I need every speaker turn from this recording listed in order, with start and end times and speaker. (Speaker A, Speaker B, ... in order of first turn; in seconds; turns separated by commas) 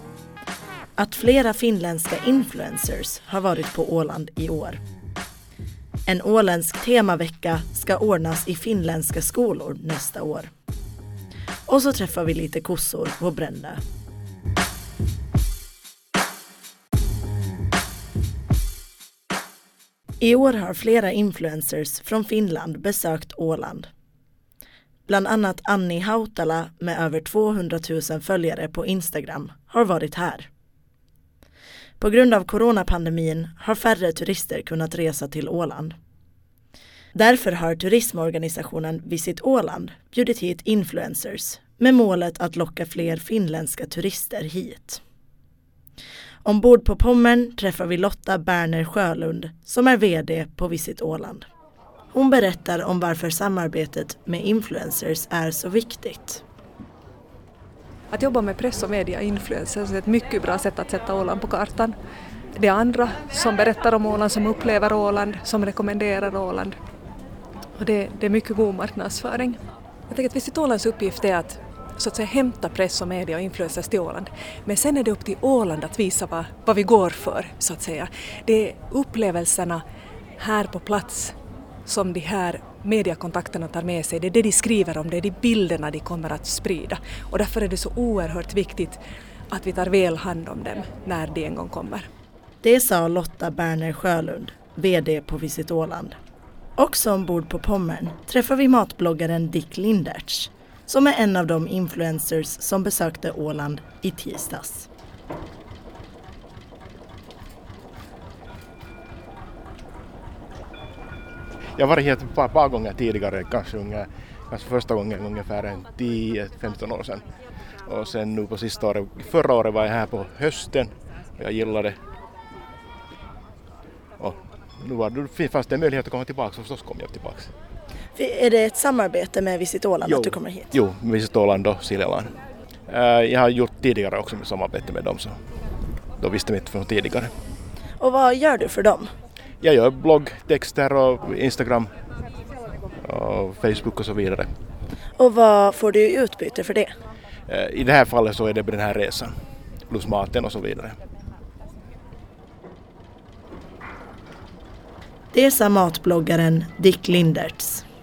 Speaker A: 1.0-4.8, Speaker A: 6.1-10.5, Speaker A: 11.7-13.8, Speaker A: 20.2-23.9, Speaker A: 25.1-30.5, Speaker A: 32.0-36.0, Speaker A: 37.1-45.0, Speaker A: 46.4-51.5, Speaker A: 52.1-56.4, Speaker B: 58.1-62.0, Speaker B: 62.5-66.8, Speaker B: 67.8-79.8, Speaker B: 80.4-89.0, Speaker B: 89.5-92.1, Speaker A: 92.6-96.2, Speaker A: 96.8-104.9, Speaker C: 111.8-117.3, Speaker C: 117.8-122.0, Speaker C: 124.2-127.5, Speaker A: 128.1-130.7, Speaker C: 130.0-135.4, Speaker C: 136.2-137.3, Speaker A: 138.0-139.1, Speaker C: 139.6-141.9, Speaker C: 143.0-144.5, Speaker A: 145.2-146.9, Speaker C: 147.5-151.0, Speaker A: 155.3-157.8